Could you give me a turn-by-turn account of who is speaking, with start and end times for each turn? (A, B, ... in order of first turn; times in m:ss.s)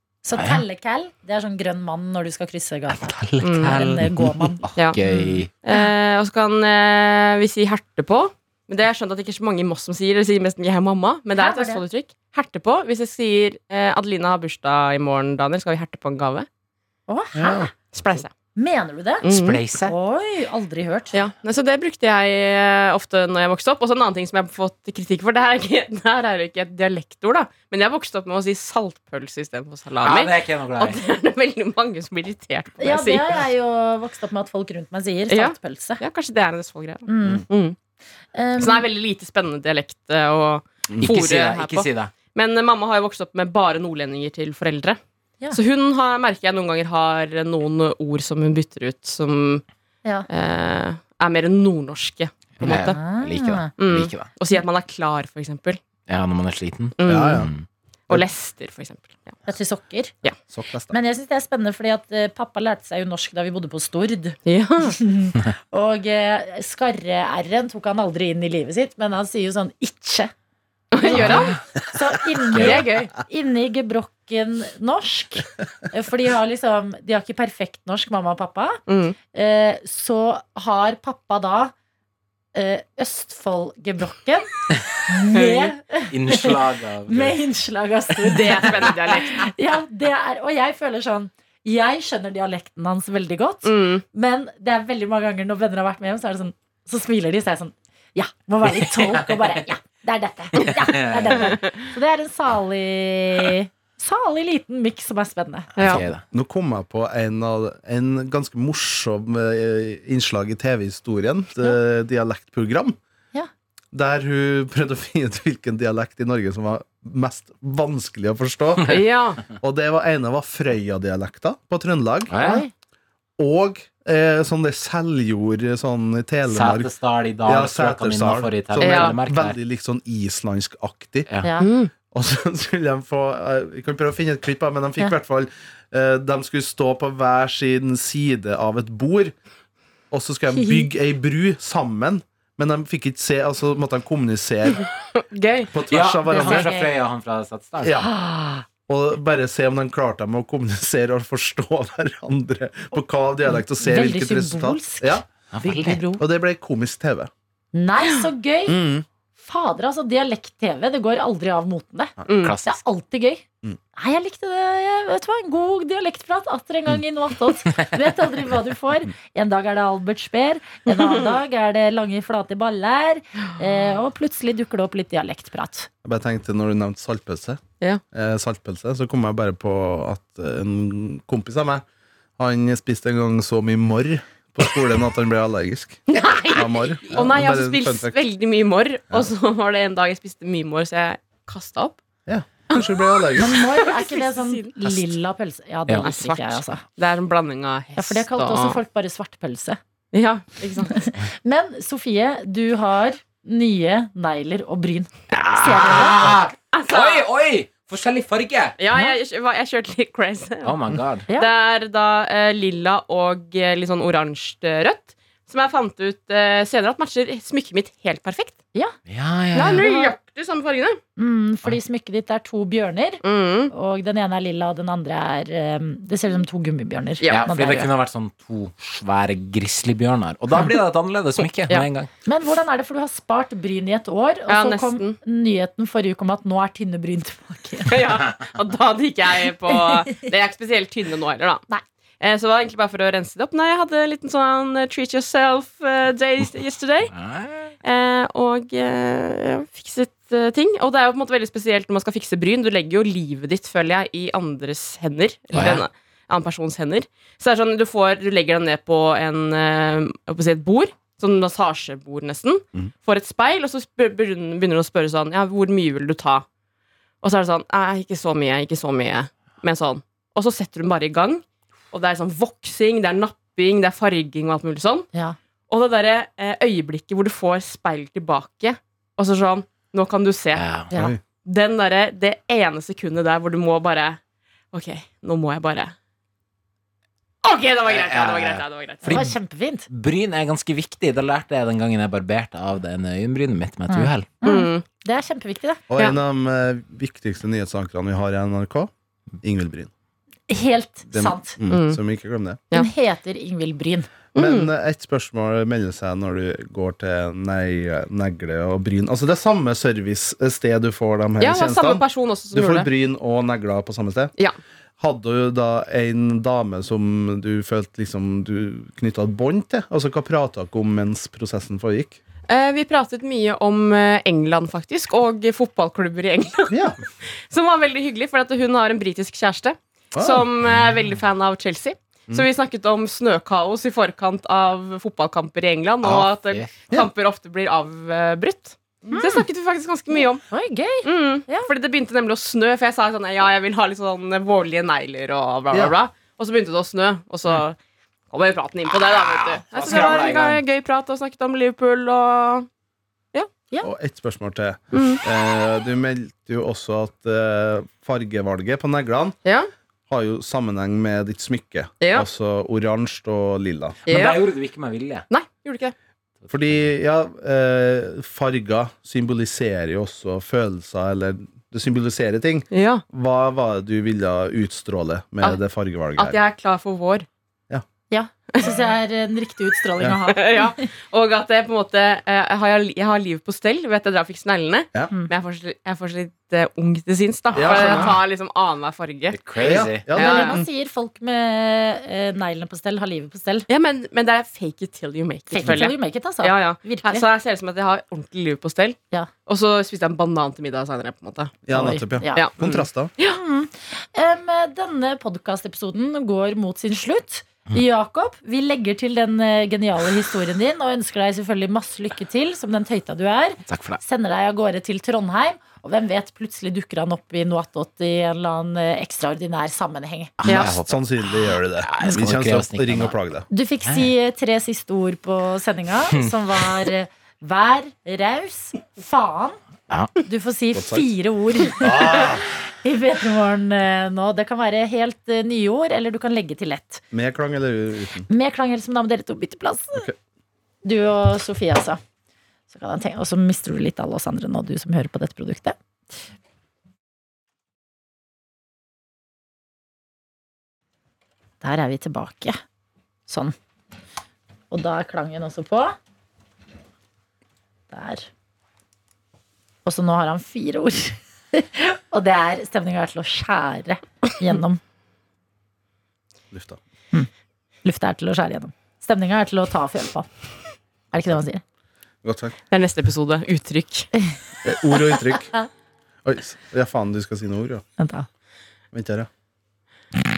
0:00.2-0:05.9 A
0:00.4-0:00.6 B
0:02.9-0:05.5 B
0:03.4-0:03.8 C
0:04.8-0:05.0 C
0:05.6-0:16.5 C
0:11.4-0:11.8 A
0:17.1-0:17.7 A
0:17.3-0:17.7 D
0:17.9-0:18.3 C
0:18.5-0:19.2 A
0:19.2-0:19.6 C
0:19.2-0:19.9 B
0:19.8-0:21.2 A
0:21.1-0:33.4 C
0:30.0-0:31.0 B
0:32.8-0:36.0 A
0:35.3-0:37.8 C
0:37.1-0:37.4 A
0:38.3-0:38.8 A
0:38.6-0:45.0 C
0:41.0-0:42.1 B
0:45.5-0:49.6 C
0:50.3-0:53.0 C
0:52.6-0:54.3 B
0:52.7-0:53.7 A
0:53.8-0:55.8 C
0:56.1-0:57.6 B
0:57.0-0:57.4 C
0:57.0-0:57.5 D
0:58.1-0:59.4 C
0:59.5-1:00.2 A
1:00.5-1:00.9 D
1:00.9-1:10.3 A
1:04.4-1:05.0 C
1:10.9-1:11.6 C
1:11.0-1:18.8 A
1:11.1-1:11.6 B
1:12.5-1:12.8 B
1:12.5-1:13.1 C
1:18.9-1:19.2 C
1:19.3-1:21.7 A
1:22.5-1:45.7 A
1:25.3-1:25.7 C
1:26.1-1:27.4 B
1:28.3-1:29.5 C
1:33.6-1:34.0 C
1:38.8-1:39.3 B
1:40.6-1:41.6 B
1:45.8-1:46.0 C
1:45.8-1:46.2 B
1:45.9-1:53.0 D
1:53.9-2:02.3 D
1:58.9-1:59.4 C
2:02.3-2:02.6 B
2:02.4-2:02.7 A
2:03.4-2:11.3 D
2:06.5-2:09.6 B
2:08.8-2:09.2 C
2:11.4-2:11.7 A
2:11.6-2:11.9 C
2:12.1-2:19.3 D
2:20.1-2:24.9 D
2:20.5-2:20.9 A
2:25.2-2:25.7 C
2:25.7-2:26.7 D
2:25.9-2:28.0 B
2:26.3-2:26.9 A
2:27.8-2:28.1 D
2:28.0-2:28.6 A
2:28.9-2:35.2 D
2:33.8-2:36.2 A
2:35.5-2:36.0 B
2:36.2-2:37.3 D
2:37.7-2:38.8 A
2:38.7-2:39.0 D
2:39.4-2:43.4 A
2:42.3-2:42.6 C
2:42.4-2:42.8 B
2:44.0-2:55.9 A
2:50.9-2:51.3 C
2:56.0-2:57.6 D
2:58.1-3:01.8 D
3:02.4-3:08.1 D
3:06.1-3:12.0 C
3:12.3-3:13.6 D
3:12.7-3:15.1 C
3:13.4-3:16.8 A
3:16.0-3:18.8 C
3:18.0-3:19.8 A
3:20.1-3:21.0 C
3:20.9-3:26.4 A
3:25.3-3:28.8 B
3:26.7-3:27.2 C
3:28.8-3:30.8 C
3:30.6-3:31.2 B
3:31.3-3:31.5 A
3:31.4-3:38.6 C
3:39.1-3:39.8 B
3:39.5-3:41.0 C
3:39.6-3:40.2 A
3:41.2-3:47.9 A
3:43.2-3:43.7 C
3:47.3-3:52.1 B
3:52.2-3:58.0 A
3:54.5-3:55.2 C
3:57.9-4:01.6 C
4:02.2-4:07.1 C
4:07.1-4:07.7 B
4:07.8-4:26.4 C
4:15.5-4:15.8 B
4:27.2-4:35.1 C
4:35.7-4:40.6 C
4:40.5-4:40.9 B
4:40.9-4:41.2 D
4:41.4-4:44.2 C
4:44.7-4:45.9 C
4:47.4-4:49.2 C
4:47.8-4:49.4 B
4:49.0-4:49.9 A
4:49.9-4:54.3 B
4:53.9-4:55.8 A
4:54.4-4:54.8 C
4:55.9-4:58.9 D
4:59.4-4:59.9 D
5:00.5-5:01.6 A
5:01.1-5:02.6 D
5:01.7-5:02.0 C
5:02.7-5:04.1 A
5:04.3-5:14.3 D
5:04.4-5:04.7 C
5:11.4-5:12.9 C
5:15.0-5:22.2 D
5:22.5-5:26.9 C
5:26.7-5:27.0 D
5:27.5-5:40.4 C
5:30.1-5:30.4 D
5:36.0-5:36.7 B
5:39.1-5:39.4 A
5:40.5-5:41.7 A
5:41.0-5:47.8 C
5:48.3-5:52.7 C
5:49.5-5:50.6 B
5:53.8-5:59.4 D
5:54.9-5:55.2 C
5:59.4-5:59.7 C
6:00.1-6:04.0 D
6:02.0-6:02.2 C
6:04.0-6:05.2 B
6:04.1-6:04.4 C
6:05.3-6:05.9 C
6:06.4-6:06.8 B
6:06.5-6:16.4 D
6:12.7-6:13.0 C
6:16.2-6:17.3 C
6:18.1-6:20.7 A
6:18.5-6:18.9 C
6:20.3-6:30.6 C
6:27.5-6:28.2 D
6:27.7-6:28.1 A
6:29.3-6:30.0 B
6:29.6-6:30.6 D
6:30.1-6:33.6 A
6:33.7-6:41.5 C
6:35.5-6:37.2 A
6:41.6-6:43.1 D
6:41.7-6:42.4 A
6:42.3-6:43.4 C
6:43.2-7:00.3 A
6:53.7-6:54.0 B
7:00.4-7:03.2 B
7:00.4-7:00.7 C
7:00.4-7:03.5 D
7:03.5-7:09.6 A
7:09.9-7:10.1 B
7:10.2-7:17.0 A
7:10.7-7:11.1 D
7:11.8-7:12.5 D
7:17.1-7:18.3 D
7:18.3-7:20.1 A
7:20.8-7:22.0 A
7:22.7-7:25.8 A
7:31.6-7:32.6 A
7:33.3-7:33.5 A
7:34.7-7:36.0 A
7:37.9-7:38.3 A
7:39.8-7:44.8 A
7:46.5-7:46.8 D
7:47.8-7:50.3 A
7:51.1-7:51.6 A
7:52.2-7:52.6 D
7:52.7-7:54.1 C
7:54.6-7:55.5 D
7:56.2-7:57.8 D
7:58.0-7:58.3 A
7:58.9-7:59.3 D